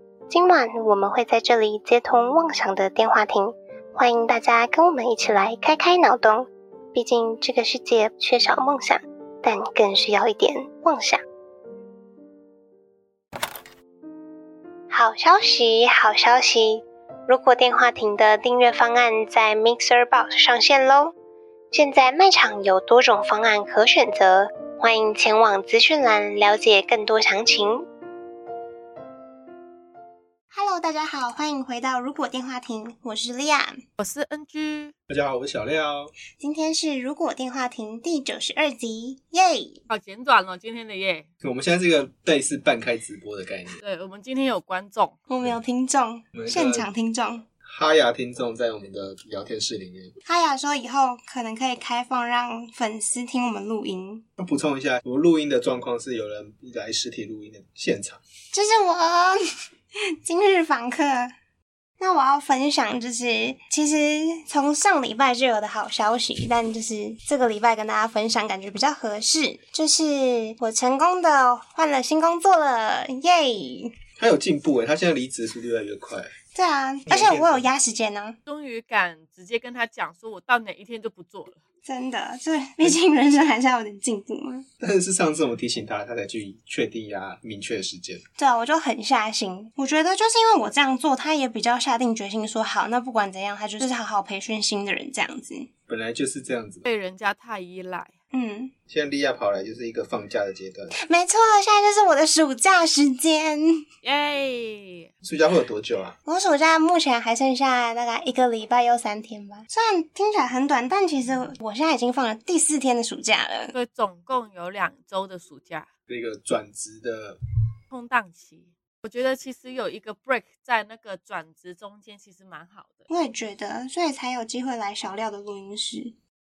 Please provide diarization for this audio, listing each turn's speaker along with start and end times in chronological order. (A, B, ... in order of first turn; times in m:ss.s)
0:00.3-0:11.2 A
0:14.9-0:21.1 A
0:21.7-0:27.8 A
0:30.5-0:33.8 A
0:34.0-0:34.9 B
0:35.1-0:36.1 C
0:36.4-0:39.8 A
0:39.9-0:41.3 B
0:41.4-0:43.8 C
0:43.8-0:45.2 B
0:45.3-0:47.4 A
0:46.3-0:46.9 C
0:47.6-0:50.1 C
0:50.2-0:54.2 A
0:54.4-0:58.2 C
0:58.5-0:59.4 A
1:00.2-1:01.3 A
1:02.0-1:13.9 A
1:14.2-1:16.3 C
1:16.5-1:18.4 A
1:17.1-1:17.7 C
1:18.5-1:21.6 B
1:21.8-1:24.6 A
1:24.8-1:28.2 C
1:28.4-1:35.7 A
1:35.9-1:36.8 C
1:36.8-1:38.1 B
1:38.3-1:38.7 A
1:38.9-1:40.9 C
1:41.0-1:43.7 A
1:44.0-1:45.1 B
1:45.2-1:46.2 C
1:46.2-1:53.7 A
1:53.7-1:55.9 B
1:56.1-1:57.4 C
1:57.9-2:03.1 B
2:03.1-2:06.1 A